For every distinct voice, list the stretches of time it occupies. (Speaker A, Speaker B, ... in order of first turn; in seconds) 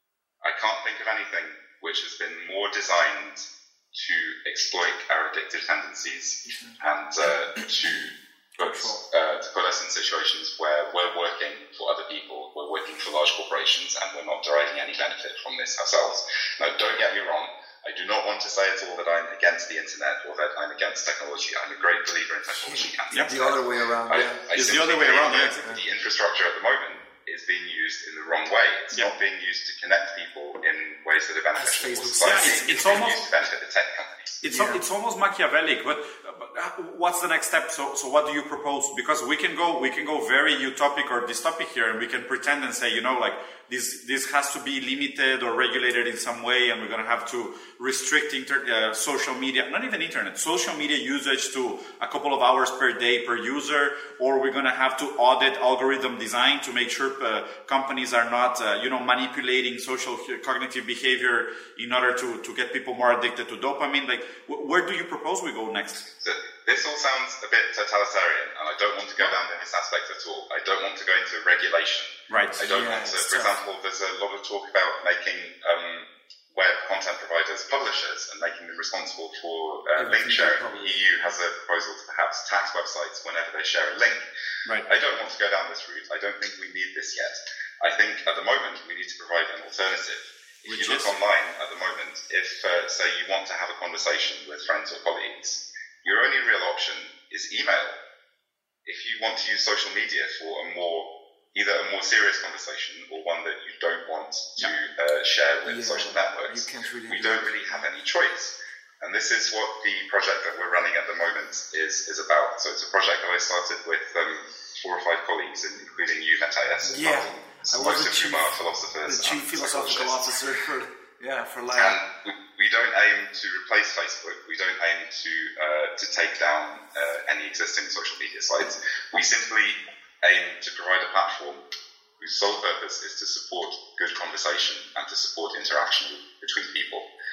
Speaker A: 0.4-34.4, 66.2-84.2, 84.8-98.0, 98.8-120.3, 121.7-131.6, 132.2-137.1
Speaker B: 6.5-6.7, 8.6-9.0, 22.6-24.4, 31.5-33.0, 34.5-34.8, 72.6-73.5, 80.0-81.0, 105.7-107.8, 116.8-118.5, 119.0-122.0
Speaker C: 24.5-25.7, 32.2-33.2, 34.4-66.1, 72.3-72.7, 90.7-91.1